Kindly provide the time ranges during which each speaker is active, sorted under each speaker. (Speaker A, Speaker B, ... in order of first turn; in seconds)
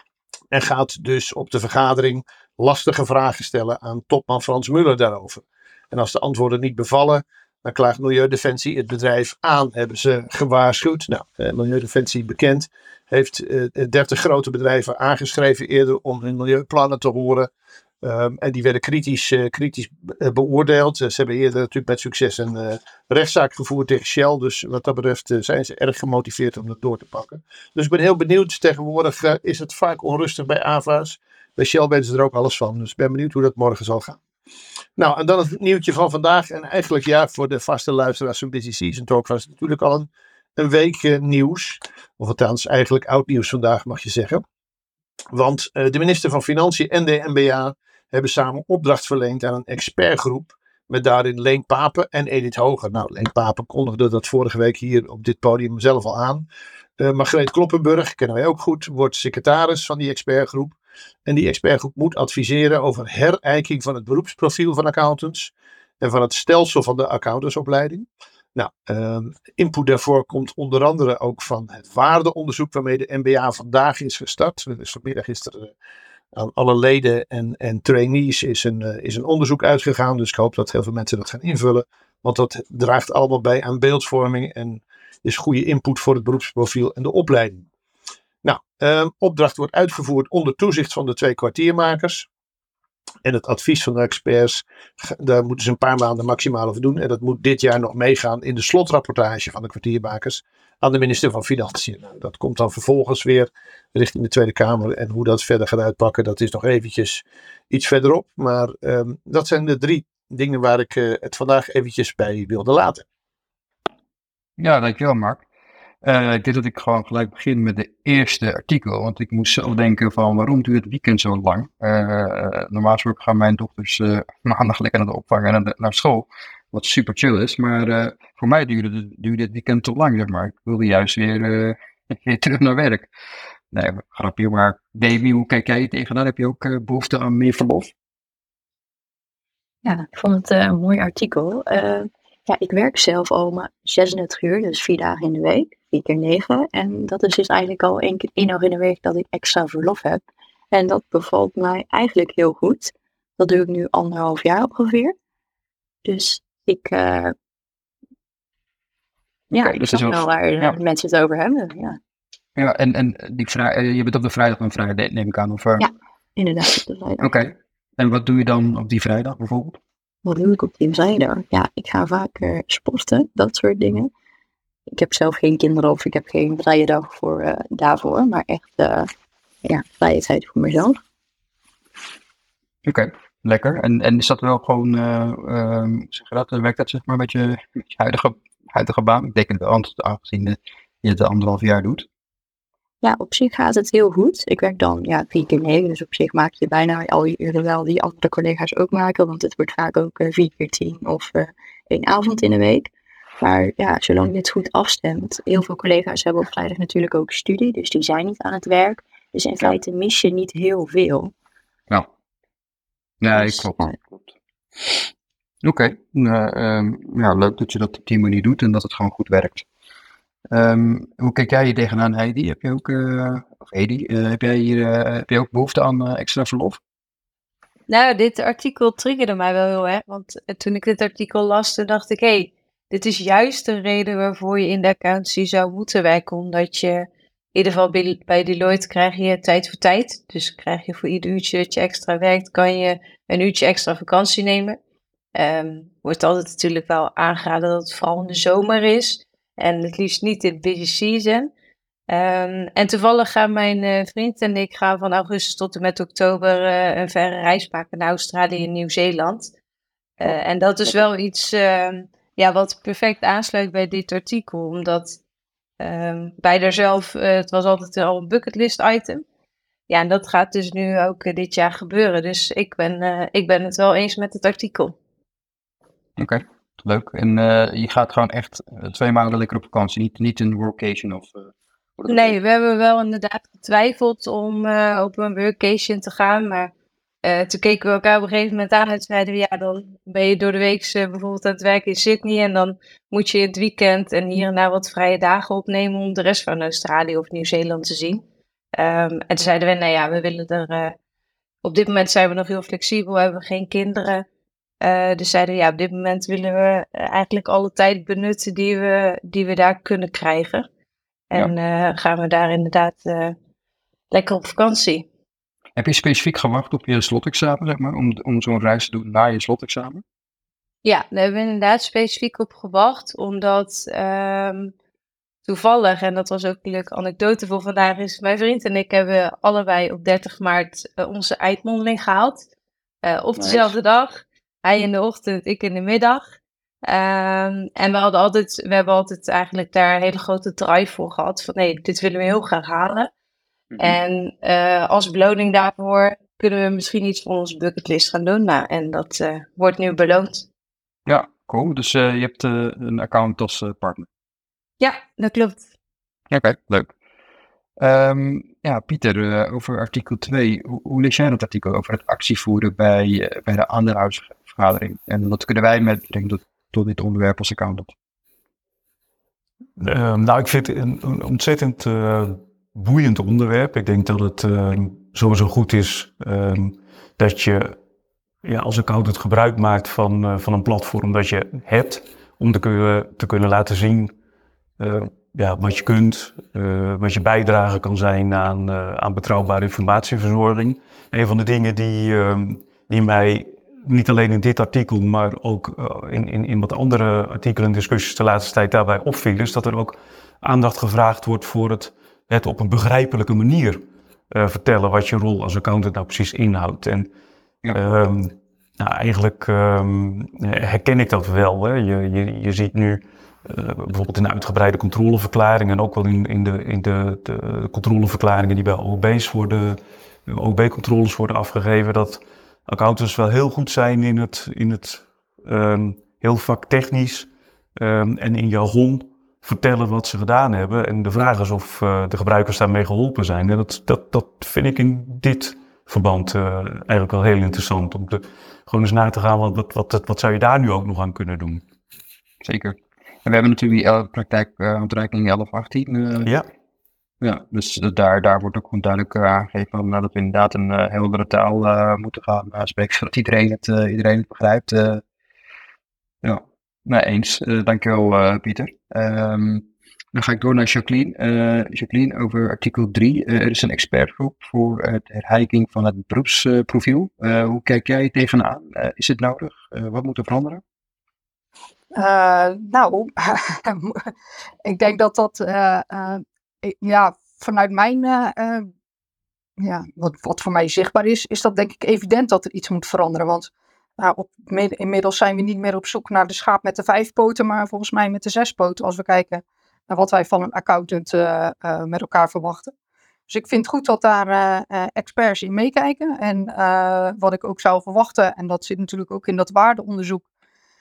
Speaker A: 0.5-17.5, 18.0-34.2, 35.0-44.4, 45.3-56.5, 57.0-75.7, 76.3-87.7, 88.4-92.3, 93.2-113.0
Speaker B: 114.6-115.4, 116.0-133.1, 133.7-137.9, 159.5-160.8, 162.6-165.9, 167.2-169.8, 182.8-192.1, 213.2-214.2, 215.6-219.7, 220.5-226.8, 276.2-281.3, 282.0-282.3, 315.8-320.0, 333.4-333.7, 351.1-354.1, 356.3-356.9, 357.8-367.9, 442.4-446.3, 447.2-455.0, 456.2-470.6
Speaker C: 139.8-155.2, 156.1-157.3, 159.5-162.0, 165.8-167.3, 170.2-174.1, 174.9-179.1, 179.7-181.0, 193.0-211.3, 213.3-214.0
Speaker D: 227.9-244.8, 245.3-251.5, 252.1-259.5, 260.2-265.2, 265.8-269.2, 269.9-275.0, 282.1-286.7, 287.2-298.2, 298.8-300.9, 301.6-304.2, 304.8-310.7, 311.3-313.4, 314.1-315.1, 320.8-324.7, 325.5-332.5, 333.0-336.3, 336.9-343.1, 343.8-350.5, 354.8-355.6
Speaker E: 369.8-377.8, 378.4-384.1, 384.8-407.1, 407.7-441.6
Speaker F: 471.9-474.1, 474.6-478.7, 479.6-492.7, 493.3-500.2